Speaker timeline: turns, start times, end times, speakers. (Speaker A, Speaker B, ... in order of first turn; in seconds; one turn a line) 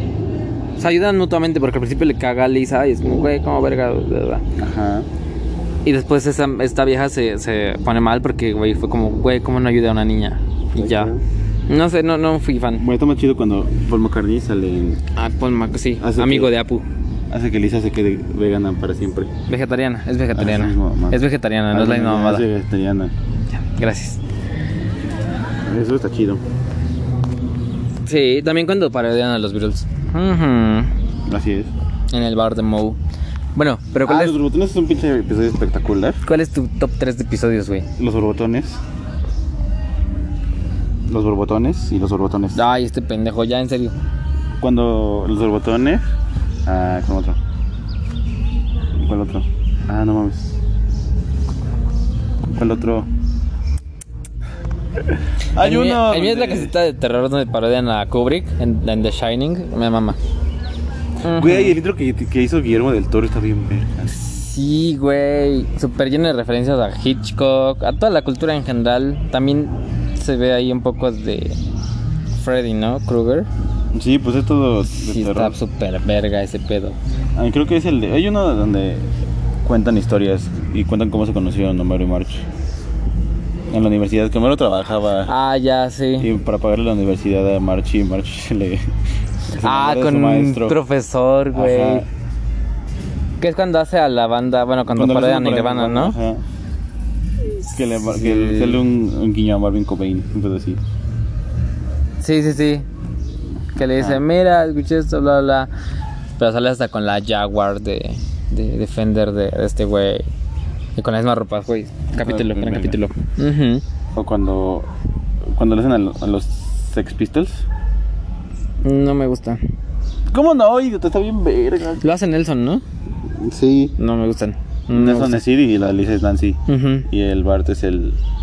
Speaker A: 0.8-4.4
Speaker B: 4.6-5.1
Speaker A: 5.8-11.1
Speaker B: 10.8-11.2
Speaker A: 11.7-12.8
Speaker B: 12.8-15.0
Speaker A: 15.2-16.9
Speaker B: 16.0-16.5
Speaker B: 17.3-19.3
Speaker A: 19.5-22.5
Speaker B: 20.3-23.1
Speaker A: 23.5-24.2
Speaker B: 25.6-26.4
Speaker A: 28.1-30.9
Speaker B: 31.3-31.7
Speaker A: 32.1-33.0
Speaker A: 33.6-34.4
Speaker B: 34.0-36.2
Speaker A: 36.2-37.9
Speaker B: 38.0-38.8
Speaker B: 41.1-42.6
Speaker A: 42.5-44.0
Speaker B: 44.6-46.0
Speaker B: 46.7-47.4
Speaker B: 49.0-50.5
Speaker B: 52.5-53.1
Speaker B: 55.5-56.7
Speaker A: 55.6-60.2
Speaker A: 61.2-61.8
Speaker B: 61.3-64.1
Speaker A: 64.1-71.6
Speaker A: 72.4-73.5
Speaker B: 73.9-75.6
Speaker A: 74.9-77.0
Speaker B: 77.4-79.1
Speaker B: 79.6-82.5
Speaker B: 83.7-85.3
Speaker A: 85.3-86.3
Speaker B: 86.2-88.8
Speaker B: 89.5-90.8
Speaker A: 89.6-92.1
Speaker B: 91.5-92.1
Speaker A: 93.4-96.2
Speaker B: 94.9-96.4
Speaker A: 97.6-98.8
Speaker B: 97.7-100.8
Speaker A: 102.2-102.9
Speaker A: 103.8-105.7
Speaker B: 103.8-104.2
Speaker A: 106.4-110.3
Speaker A: 111.0-113.8
Speaker B: 112.2-113.0
Speaker B: 114.2-114.9
Speaker B: 115.5-117.6
Speaker A: 118.8-119.6
Speaker B: 120.3-122.0
Speaker A: 122.0-122.8
Speaker B: 123.4-124.0
Speaker A: 124.0-125.5
Speaker B: 124.9-128.2
Speaker A: 126.7-127.1